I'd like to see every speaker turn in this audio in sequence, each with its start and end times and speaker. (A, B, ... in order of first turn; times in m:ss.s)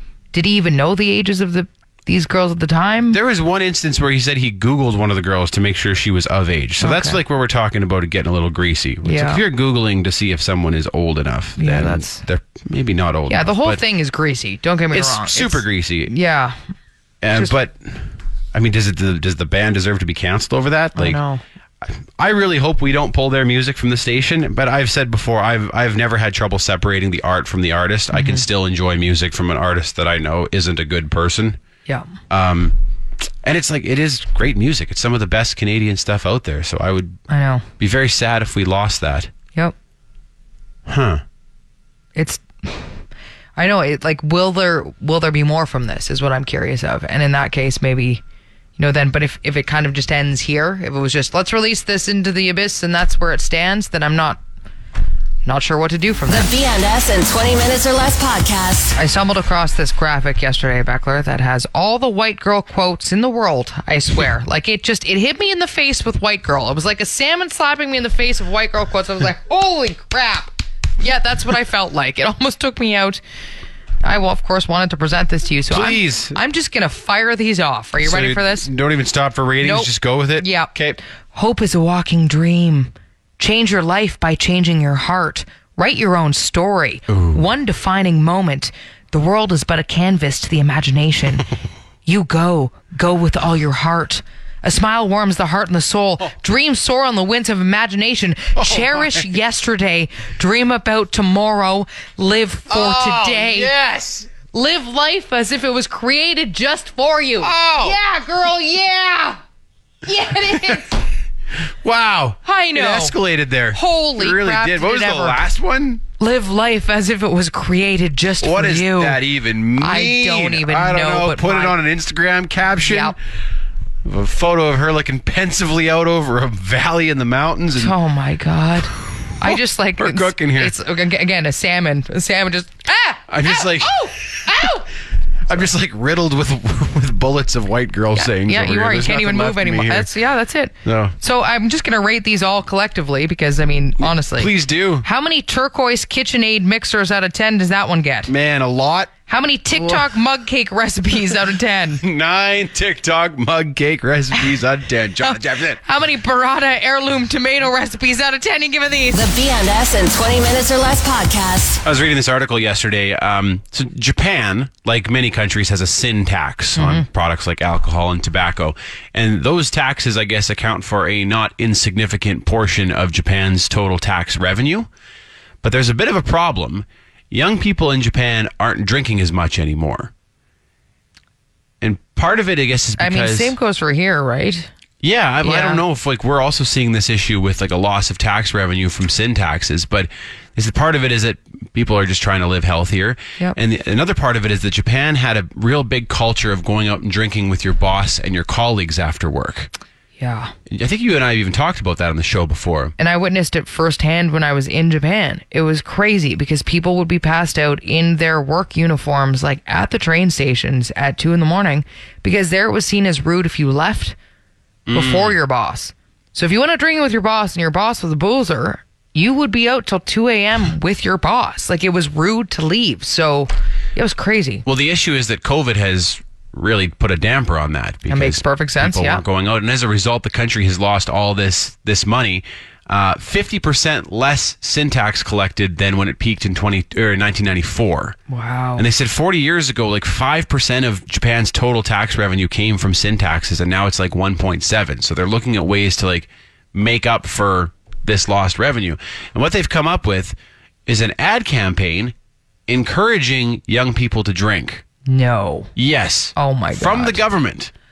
0:00.3-0:03.2 A
0:03.1-0:13.8 B
0:06.8-0:07.2 A
0:09.0-0:09.4 A
0:11.6-0:12.2 A
0:13.3-0:16.6 A
0:14.9-0:16.1 B
0:17.2-0:21.2 B
0:21.0-0:21.4 A
0:21.8-0:31.6 B
0:28.1-0:28.4 A
0:32.3-0:32.8 B
0:33.4-0:37.2 B
0:37.3-0:37.7 A
0:37.8-0:39.3 B
0:40.9-0:41.2 B
0:42.2-0:42.9 A
0:43.6-0:48.2 A
0:48.8-0:54.4 A
0:55.5-0:56.5 A
0:56.3-0:59.0 C
0:59.0-1:13.2 A
1:14.0-1:18.7 A
1:15.7-1:16.4 B
1:18.0-1:21.0 B
1:19.6-1:20.7 A
1:21.3-1:31.5 A
1:27.1-1:27.4 B
1:32.1-1:43.7 A
1:38.6-1:39.3 B
1:42.7-1:44.3 B
1:44.5-1:49.4 A
1:47.4-1:48.0 B
1:50.0-1:51.0 A
1:50.4-1:50.8 B
1:51.8-1:56.0 B
1:52.4-1:53.2 A
1:53.7-1:55.4 A
1:56.2-1:59.2 A
1:58.4-2:03.2 B
1:59.8-2:01.8 A
2:02.8-2:03.2 A
2:04.0-2:08.0 B
2:07.8-2:14.9 A
2:09.4-2:10.8 B
2:13.3-2:14.1 B
2:15.5-2:20.1 B
2:18.2-2:28.3 A
2:20.8-2:21.2 B
2:24.0-2:25.1 B
2:28.3-2:29.1 B
2:29.3-2:32.0 A
2:29.7-2:30.1 B
2:32.0-2:35.8 B
2:35.2-2:39.2 A
2:39.1-2:41.8 C
2:41.8-2:54.9 B
2:46.8-2:47.1 A
2:55.6-3:00.1 B
3:01.8-3:03.6 B
3:03.0-3:04.7 A
3:05.0-3:19.7 B
3:05.4-3:05.8 A
3:20.2-3:20.5 A
3:20.7-3:22.9 B
3:23.0-3:34.2 A
3:34.9-3:35.4 B
3:34.9-3:44.6 A
3:44.7-3:58.2 B
3:48.1-3:49.2 A
3:58.3-3:58.8 A
3:58.8-4:12.2 B
4:12.7-4:14.8 B
4:15.1-4:15.7 A
4:15.8-4:17.7 B
4:16.4-4:17.2 A